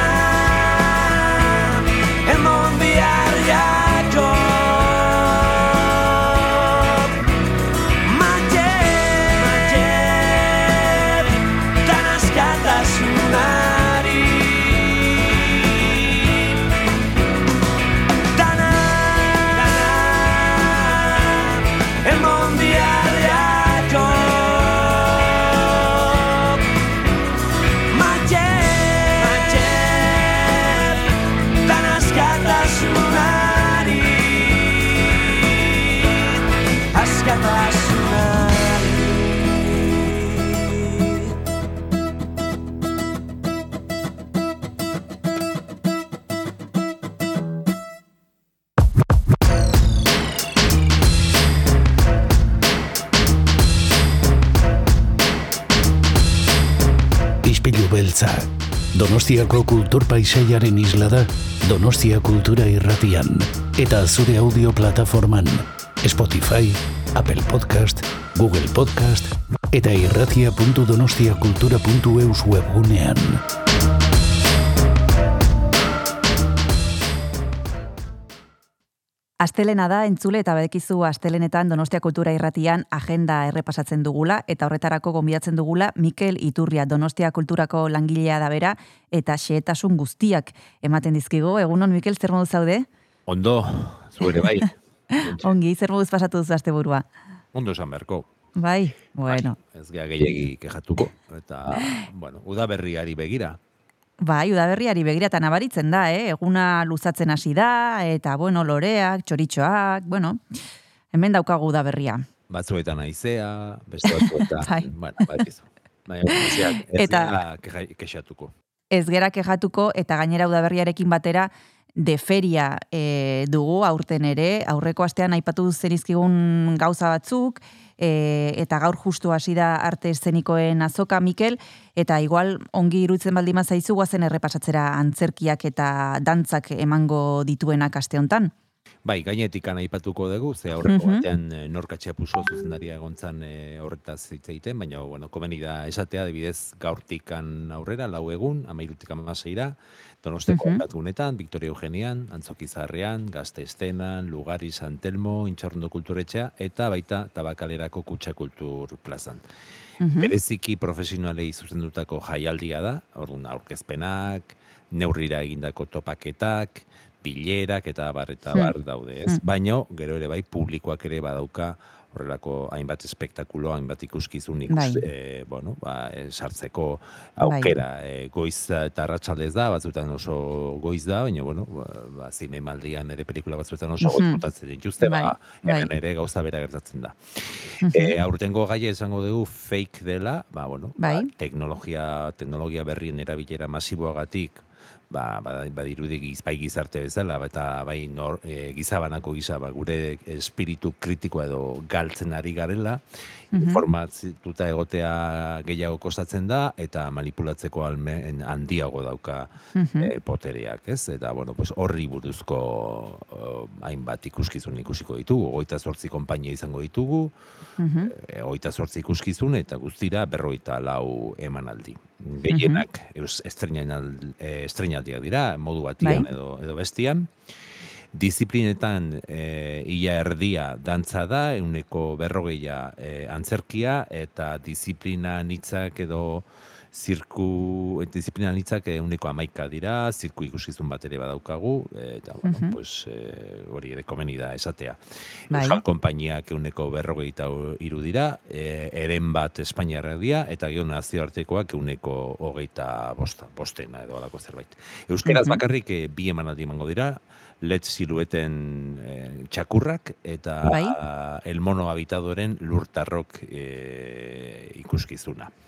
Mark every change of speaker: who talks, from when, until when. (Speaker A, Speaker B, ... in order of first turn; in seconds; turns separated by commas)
Speaker A: 57.4-73.4, Speaker B: 79.4-92.8, Speaker C: 93.3-95.5, Speaker B: 95.1-97.0, Speaker C: 97.5-98.3, Speaker B: 98.6-99.6, Speaker C: 99.3-103.6, Speaker B: 104.2-110.4, Speaker B: 111.1-112.2, Speaker C: 112.5-118.5, Speaker B: 114.1-114.8, Speaker B: 116.3-117.3, Speaker B: 118.9-138.5, Speaker C: 139.0-159.4, Speaker B: 140.9-141.2, Speaker B: 150.5-150.8, Speaker B: 160.0-160.3, Speaker C: 160.2-187.2, Speaker B: 174.7-175.0, Speaker B: 177.4-177.7, Speaker B: 184.0-184.4, Speaker B: 185.0-185.9, Speaker B: 187.8-188.1, Speaker C: 187.9-203.0, Speaker B: 191.0-191.3, Speaker B: 203.5-203.8, Speaker C: 203.5-217.3, Speaker B: 209.7-210.1, Speaker B: 217.8-218.1, Speaker C: 218.1-227.3, Speaker B: 222.5-222.8, Speaker C: 228.1-245.0, Speaker B: 242.4-242.7, Speaker B: 245.5-245.8, Speaker C: 245.5-265.5, Speaker B: 255.2-255.6, Speaker B: 260.6-260.9